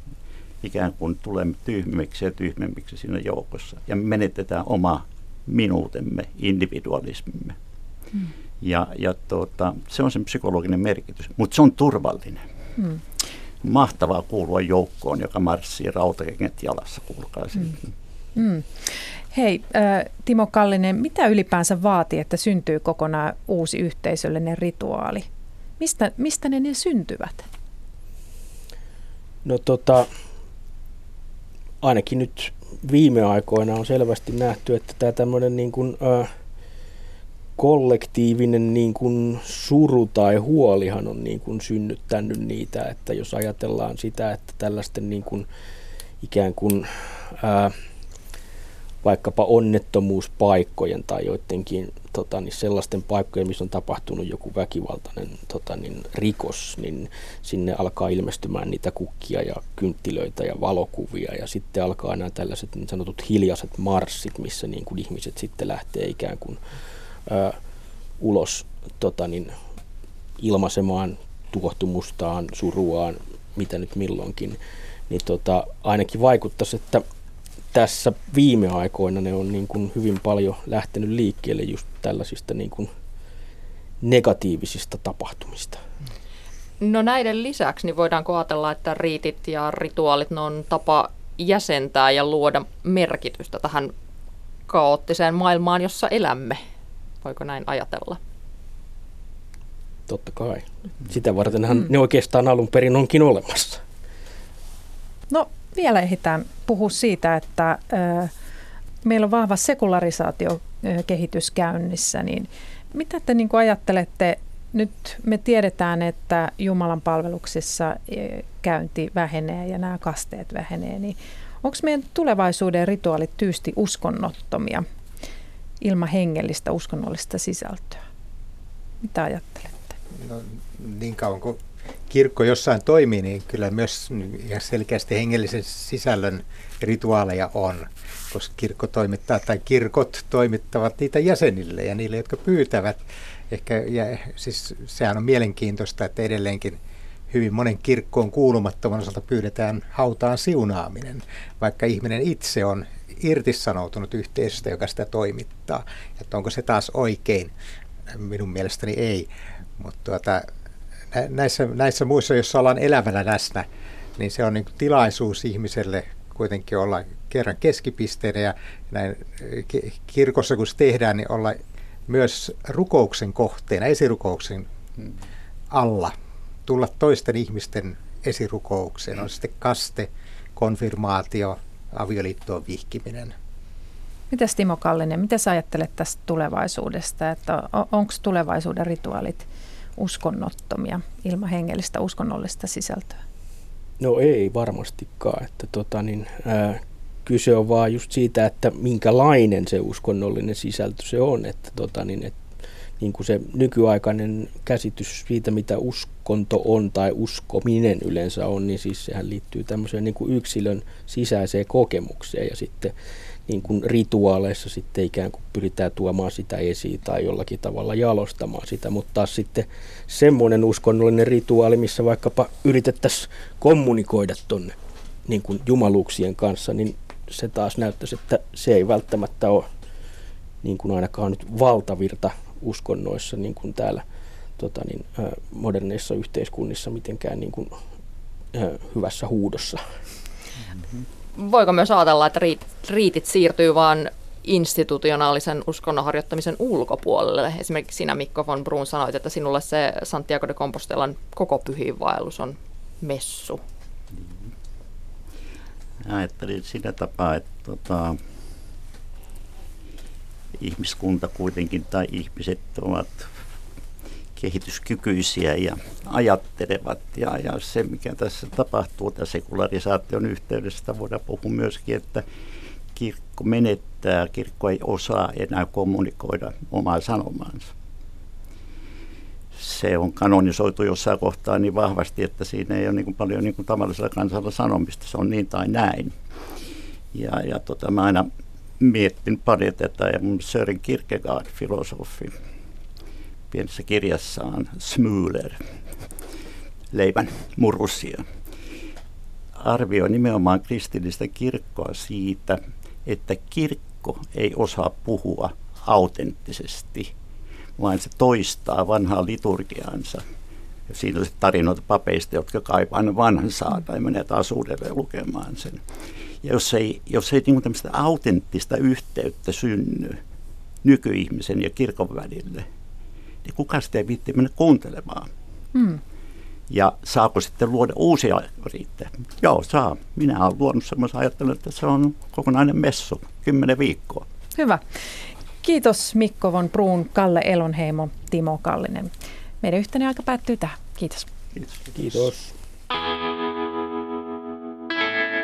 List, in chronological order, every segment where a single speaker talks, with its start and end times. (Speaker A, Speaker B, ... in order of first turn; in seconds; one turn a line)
Speaker A: 0.6-7.5
Speaker A: 8.6-12.4
Speaker A: 13.6-17.9
Speaker B: 18.4-25.3
Speaker B: 25.8-27.5
Speaker C: 29.4-30.1
Speaker C: 31.8-36.3
Speaker C: 37.6-45.5
Speaker C: 46.2-47.7
Speaker C: 49.0-66.6
Speaker C: 67.2-67.6
Speaker C: 68.2-69.5
Speaker C: 70.4-74.6
Speaker C: 75.1-77.0
Speaker C: 77.7-82.9
Speaker C: 84.0-85.8
Speaker D: 86.8-93.9
Speaker D: 94.7-96.6
Speaker D: 97.2-98.2
Speaker C: 100.1-103.8
Speaker B: 105.3-108.3
Speaker B: 109.0-124.8
Speaker B: 125.8-128.0
Speaker B: 129.0-129.9
Speaker E: 130.1-146.8
Speaker E: 147.3-157.5
Speaker E: 158.1-160.5
Speaker E: 161.1-174.7
Speaker E: 175.7-176.1
Speaker E: 176.7-183.3
Speaker B: 184.3-189.4
Speaker B: 190.0-193.2
Speaker C: 194.0-202.4
Speaker C: 203.0-212.9
Speaker C: 213.5-224.8
Speaker C: 225.3-229.7
Speaker C: 230.6-234.0
Speaker C: 234.6-237.8
Speaker C: 238.5-239.8
Speaker D: 241.3-253.6
Speaker A: 254.1-254.5
Speaker A: 256.0-258.2
Speaker A: 260.6-263.3
Speaker A: 264.4-272.2
Speaker A: 272.9-277.7
Speaker A: 279.5-286.1
Speaker A: 287.1-288.3
Speaker A: 288.8-292.3
Speaker A: 293.5-295.6
Speaker A: 296.9-298.2
Speaker A: 299.6-307.1
Speaker A: 307.8-310.2
Speaker A: 310.9-315.8
Speaker A: 316.4-320.2
Speaker A: 320.8-322.6
Speaker A: 323.4-325.3
Speaker B: 325.7-326.0
Speaker A: 326.7-334.2
Speaker B: 334.6-334.8
Speaker B: 335.6-341.3
Speaker A: 341.6-341.9
Speaker C: 341.9-342.5